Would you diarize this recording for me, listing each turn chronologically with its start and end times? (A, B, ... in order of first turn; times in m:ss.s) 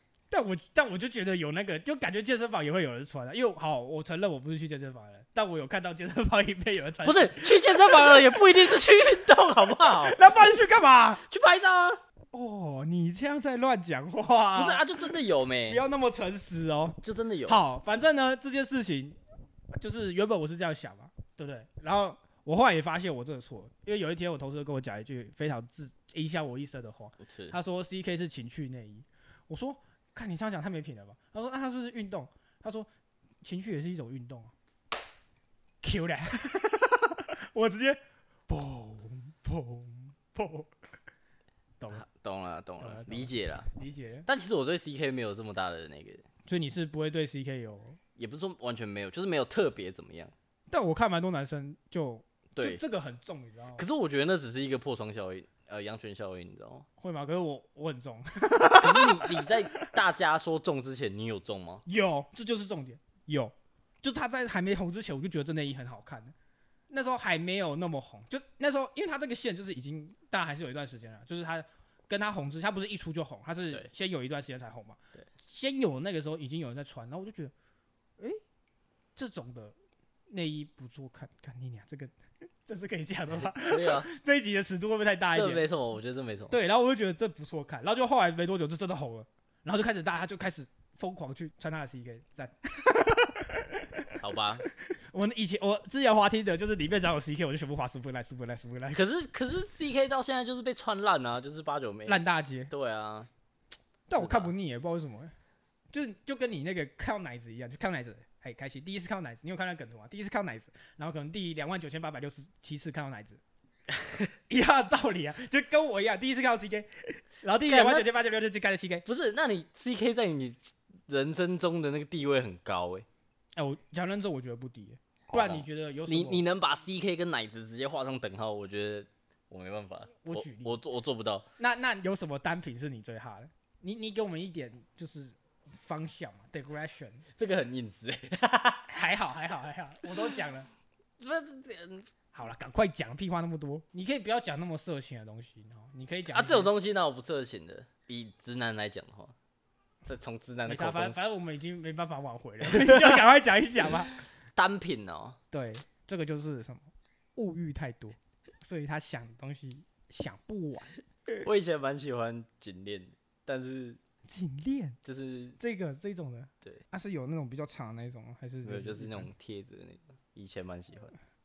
0:00.3-0:09.2 A
0:07.0-0:10.2 B
0:09.8-0:11.2 A
0:11.3-0:12.0 B
0:12.3-0:19.2 A
0:14.6-0:15.8 B
0:17.0-0:17.6 B
0:19.7-0:32.9 A
0:27.2-0:27.6 B
0:33.4-0:34.5 A
0:35.8-0:40.7 A
0:41.9-0:43.7 B
0:42.8-0:44.3 A
0:44.3-0:46.2 B
0:46.5-0:48.0 A
0:48.2-0:50.3 B
0:50.7-0:53.8 A
0:52.6-0:52.8 B
0:53.8-0:56.9 B
0:57.0-0:59.6 A
0:58.8-1:01.8 B
1:01.9-1:06.4 A
1:06.9-1:17.5 A
1:19.2-1:19.8 A
1:20.3-1:22.1 A
1:22.7-1:25.6 A
1:23.4-1:24.1 B
1:25.3-1:26.6 B
1:26.5-1:34.1 A
1:34.2-1:34.7 B
1:34.7-1:39.0 A
1:38.9-1:43.3 B
1:42.1-1:42.7 A
1:44.1-1:45.3 A
1:44.2-1:44.5 B
1:45.9-1:53.4 A
1:54.0-1:54.3 B
1:54.5-1:59.0 A
1:57.7-1:58.1 B
1:59.0-2:03.1 B
2:03.6-2:06.4 A
2:05.3-2:11.5 B
2:10.2-2:10.7 A
2:11.6-2:17.2 A
2:17.4-2:18.9 B
2:18.9-2:20.7 A
2:21.2-2:22.1 B
2:22.3-2:26.7 A
2:26.3-2:29.3 B
2:30.0-2:31.2 B
2:30.7-2:34.2 A
2:32.6-2:33.2 B
2:34.6-2:35.4 B
2:35.5-2:41.0 A
2:41.4-2:44.0 B
2:44.3-2:45.0 A
2:45.0-2:45.6 B
2:45.6-2:49.3 A
2:48.6-2:51.2 B